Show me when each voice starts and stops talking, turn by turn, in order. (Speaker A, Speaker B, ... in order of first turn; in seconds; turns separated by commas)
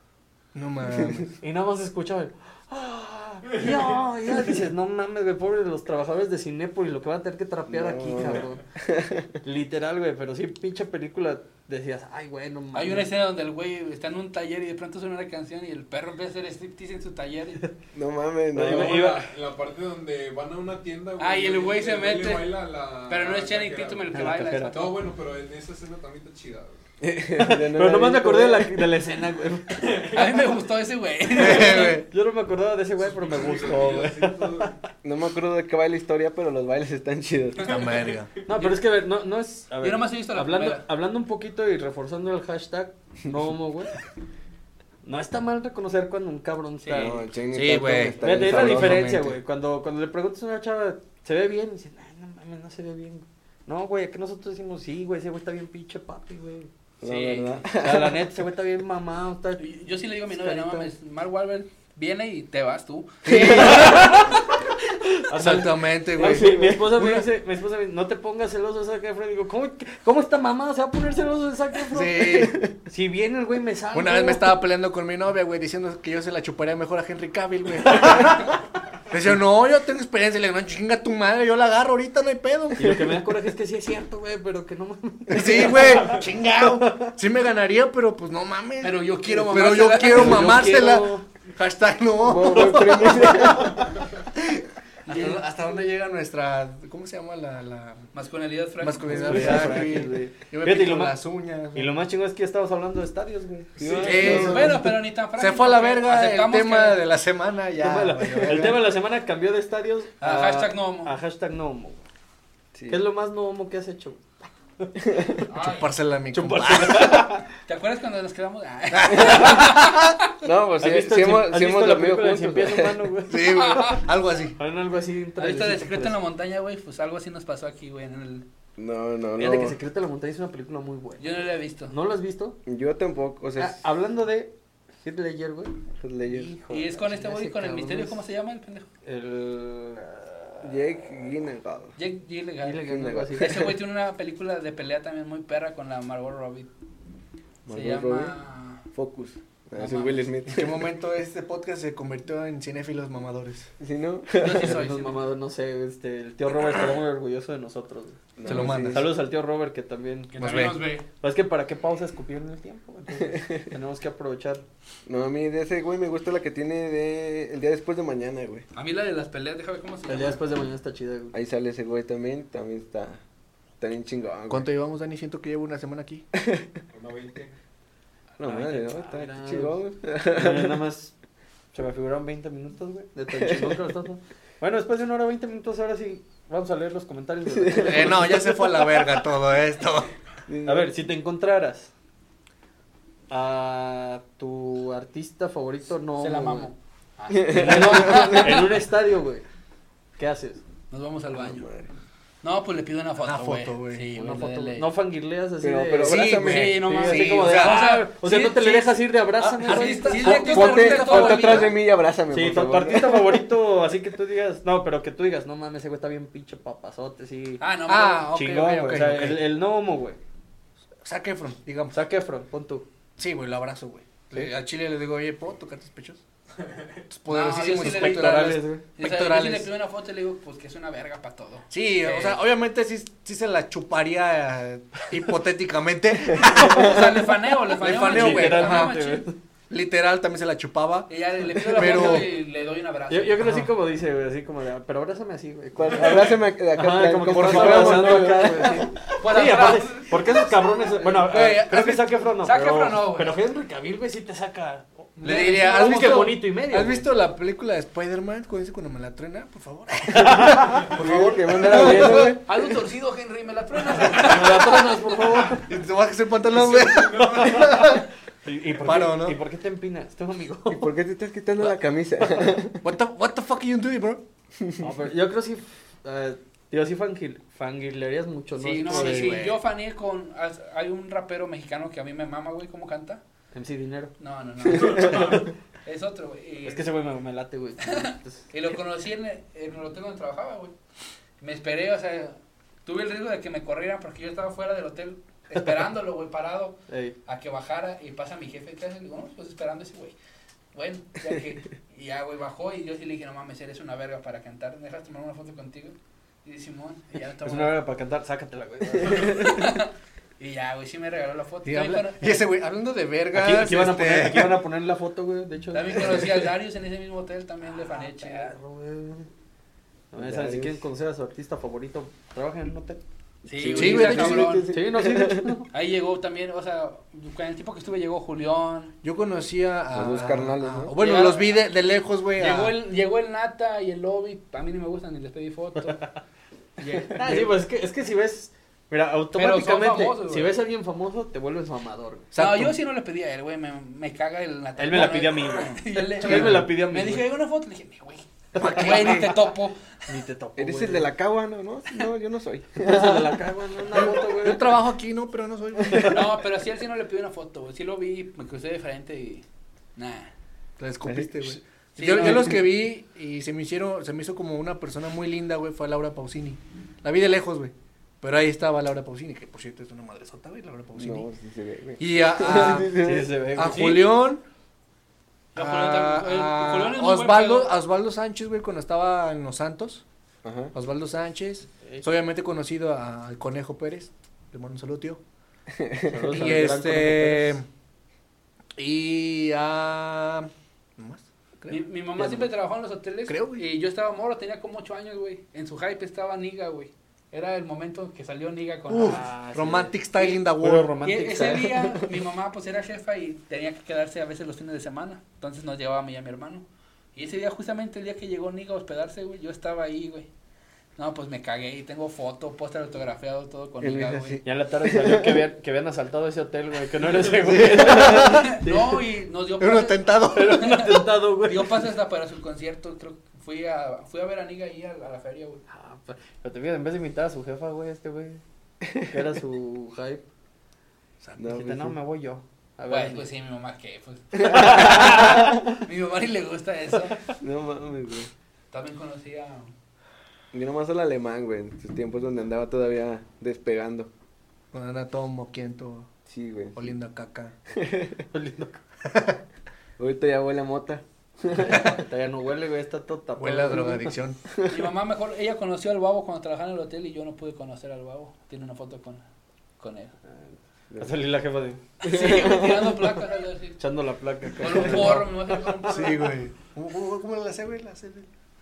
Speaker A: 0.5-1.3, Speaker B: 0.9-1.2, Speaker C: 1.4-8.6, Speaker B: 7.7-9.4, Speaker C: 9.4-13.1, Speaker D: 12.7-17.6, Speaker B: 17.9-18.9, Speaker C: 18.5-19.3, Speaker E: 18.6-24.1, Speaker D: 21.2-22.5, Speaker D: 23.1-25.0, Speaker C: 24.1-24.9, Speaker E: 24.7-26.8, Speaker B: 27.0-28.8, Speaker C: 27.4-30.1, Speaker E: 29.7-30.5, Speaker D: 30.1-32.0, Speaker A: 31.3-32.1, Speaker C: 31.4-34.8, Speaker E: 33.0-34.8, Speaker B: 35.0-37.8, Speaker D: 37.6-38.8, Speaker A: 37.6-38.3, Speaker E: 37.7-38.2, Speaker C: 38.5-43.9, Speaker D: 39.8-40.8, Speaker C: 45.0-47.2, Speaker D: 46.8-47.1, Speaker B: 46.9-49.3, Speaker A: 47.5-49.4, Speaker C: 48.2-56.7, Speaker B: 57.0-58.3, Speaker D: 57.0-57.6, Speaker C: 57.7-59.6, Speaker D: 59.6-64.4, Speaker C: 60.3-60.9, Speaker A: 63.2-64.1, Speaker B: 63.3-63.9, Speaker C: 63.3-64.4, Speaker C: 65.2-74.6, Speaker A: 65.3-67.2, Speaker B: 66.2-66.9, Speaker A: 71.9-72.6, Speaker B: 72.3-72.7, Speaker A: 73.9-78.6, Speaker A: 79.1-83.0, Speaker C: 82.8-87.2, Speaker A: 85.3-93.7, Speaker D: 88.8-90.8, Speaker C: 89.3-91.2, Speaker B: 92.2-93.8, Speaker C: 92.4-93.6, Speaker A: 94.4-98.0, Speaker C: 95.1-95.4, Speaker D: 95.1-95.4, Speaker D: 98.1-99.9, Speaker A: 98.8-101.9, Speaker C: 99.1-101.2, Speaker C: 101.7-104.7, Speaker B: 103.8-104.8, Speaker A: 103.9-108.8, Speaker D: 104.0-107.0, Speaker C: 107.8-112.0, Speaker B: 108.4-108.6, Speaker D: 110.2-111.1, Speaker B: 112.7-113.0, Speaker C: 112.9-115.4, Speaker B: 115.0-115.5, Speaker D: 115.5-115.9, Speaker A: 115.5-117.3, Speaker C: 116.3-117.5, Speaker D: 117.7-120.2, Speaker A: 118.9-120.1, Speaker B: 120.4-123.0, Speaker C: 120.8-124.0, Speaker A: 123.3-124.6, Speaker D: 123.5-124.0, Speaker C: 124.5-126.1, Speaker D: 125.4-128.5, Speaker B: 128.8-129.8, Speaker C: 129.3-132.6, Speaker D: 131.2-131.9, Speaker B: 132.7-133.8, Speaker C: 133.6-138.3, Speaker B: 136.0-136.5, Speaker D: 136.7-138.9, Speaker C: 139.0-140.9, Speaker B: 140.6-142.0, Speaker D: 142.0-146.7, Speaker C: 142.6-143.7, Speaker B: 142.8-143.7, Speaker B: 147.7-148.3, Speaker D: 147.7-148.8, Speaker B: 148.9-150.9, Speaker D: 149.8-150.2, Speaker A: 150.5-153.7, Speaker B: 153.8-154.8, Speaker D: 154.3-155.2, Speaker C: 154.5-164.6, Speaker B: 158.3-159.1, Speaker A: 158.4-159.1, Speaker D: 160.3-161.0, Speaker A: 160.4-160.8, Speaker B: 163.2-163.6, Speaker B: 165.1-168.7, Speaker D: 168.7-170.4, Speaker C: 170.1-171.3, Speaker B: 171.3-173.2, Speaker B: 173.8-174.7, Speaker A: 174.5-176.2, Speaker B: 176.3-176.7, Speaker E: 176.9-177.5, Speaker B: 178.4-180.8, Speaker C: 178.4-181.1, Speaker C: 181.7-188.8, Speaker B: 183.3-183.9, Speaker B: 187.5-188.9, Speaker A: 187.7-190.1, Speaker B: 190.5-190.9, Speaker C: 190.6-191.9, Speaker C: 193.3-196.7, Speaker D: 196.2-198.8, Speaker B: 197.3-198.6, Speaker C: 197.5-199.4, Speaker C: 200.2-200.6, Speaker D: 200.9-201.7, Speaker B: 201.3-201.9, Speaker D: 202.4-204.9, Speaker A: 203.2-204.0, Speaker C: 204.1-210.5, Speaker B: 205.6-206.9, Speaker A: 206.0-207.8, Speaker D: 206.4-211.8, Speaker A: 209.5-211.7, Speaker B: 210.2-213.4, Speaker C: 212.3-217.6, Speaker D: 217.6-219.2, Speaker A: 217.9-219.4, Speaker C: 218.3-220.2, Speaker A: 221.0-222.0, Speaker C: 221.9-222.8, Speaker A: 223.2-226.2, Speaker E: 226.6-227.0, Speaker A: 227.1-229.7, Speaker D: 227.3-232.4, Speaker C: 227.6-228.8, Speaker A: 231.7-238.9, Speaker D: 236.3-239.3, Speaker B: 236.5-237.3, Speaker C: 237.9-239.4, Speaker A: 239.7-242.3, Speaker D: 241.1-243.5, Speaker C: 241.7-242.3, Speaker C: 243.1-257.1, Speaker A: 243.4-243.7, Speaker B: 245.7-248.9, Speaker A: 247.3-248.3, Speaker D: 249.2-250.6, Speaker A: 251.0-252.1, Speaker D: 252.4-253.4, Speaker A: 255.2-262.4, Speaker D: 255.2-256.3, Speaker B: 260.1-262.4, Speaker C: 260.2-260.7, Speaker C: 261.4-262.4, Speaker D: 262.1-265.2, Speaker C: 264.1-265.7, Speaker A: 265.6-268.1, Speaker E: 266.5-267.4, Speaker C: 267.2-270.9, Speaker A: 268.8-269.4, Speaker B: 270.7-272.8, Speaker C: 271.6-272.5, Speaker A: 272.8-274.2, Speaker B: 274.6-274.9, Speaker C: 274.8-279.4, Speaker D: 278.6-283.2, Speaker A: 278.8-279.6, Speaker C: 283.5-284.1, Speaker D: 284.2-286.9, Speaker C: 284.6-285.5, Speaker E: 284.7-285.5, Speaker C: 286.6-288.5, Speaker D: 287.8-290.7, Speaker D: 291.4-300.1, Speaker C: 296.9-297.1, Speaker D: 300.7-307.8, Speaker C: 307.4-309.6, Speaker D: 309.0-312.5, Speaker A: 311.6-314.6, Speaker C: 313.3-316.4, Speaker D: 315.7-318.5, Speaker C: 317.6-319.3, Speaker C: 320.1-323.0, Speaker B: 320.1-320.8, Speaker D: 323.4-324.7, Speaker C: 323.5-325.7, Speaker B: 323.7-325.6, Speaker A: 323.7-324.6, Speaker D: 325.7-328.9, Speaker A: 329.0-332.7, Speaker B: 329.9-330.9, Speaker D: 331.0-331.5, Speaker C: 331.0-331.3, Speaker D: 332.4-336.1, Speaker C: 335.8-336.2, Speaker D: 336.8-337.5, Speaker C: 337.1-342.3, Speaker D: 339.3-340.5, Speaker A: 342.3-342.8, Speaker D: 342.3-349.9, Speaker C: 344.8-347.3, Speaker A: 346.1-346.7, Speaker C: 348.6-349.3, Speaker A: 348.6-349.3, Speaker C: 350.1-351.1, Speaker B: 350.6-353.4, Speaker C: 352.8-354.7, Speaker A: 354.0-356.2, Speaker D: 355.9-359.4, Speaker D: 359.9-360.3, Speaker A: 360.8-371.3, Speaker B: 361.0-361.5, Speaker D: 361.9-362.6, Speaker C: 362.0-362.5, Speaker B: 370.9-373.3, Speaker A: 372.0-373.0, Speaker C: 372.6-374.1, Speaker A: 373.6-374.4, Speaker D: 373.7-374.1, Speaker D: 375.5-377.7, Speaker A: 375.6-380.0, Speaker B: 380.4-380.7, Speaker A: 380.7-385.2, Speaker B: 385.7-386.8, Speaker C: 386.1-387.6, Speaker A: 386.3-387.6, Speaker A: 388.8-392.4, Speaker D: 391.7-399.3, Speaker A: 393.3-393.6, Speaker A: 398.9-400.9, Speaker C: 399.0-401.8, Speaker D: 401.0-410.3, Speaker D: 410.9-414.4, Speaker B: 413.8-415.4, Speaker C: 414.4-419.0, Speaker A: 417.6-418.5, Speaker D: 418.1-425.6, Speaker A: 419.6-420.6, Speaker C: 420.3-421.8, Speaker C: 425.7-428.4, Speaker B: 428.8-429.2, Speaker C: 429.0-430.2, Speaker B: 431.4-432.0, Speaker C: 431.4-433.3, Speaker D: 432.9-437.2, Speaker C: 434.4-435.6, Speaker B: 434.6-435.2, Speaker B: 437.4-438.3, Speaker D: 438.7-439.7, Speaker B: 440.5-444.1, Speaker A: 444.7-446.1, Speaker B: 446.2-446.9, Speaker A: 446.7-447.6, Speaker B: 447.7-448.2, Speaker C: 448.3-448.8, Speaker A: 449.1-449.4, Speaker B: 450.0-452.0, Speaker C: 451.5-454.1, Speaker A: 453.4-454.4, Speaker B: 454.5-454.8, Speaker D: 454.6-459.2, Speaker D: 459.8-460.1, Speaker C: 460.3-461.8, Speaker D: 462.0-463.8, Speaker B: 462.0-463.1, Speaker C: 463.8-465.9, Speaker D: 464.6-466.4, Speaker A: 464.8-465.1, Speaker A: 465.9-468.3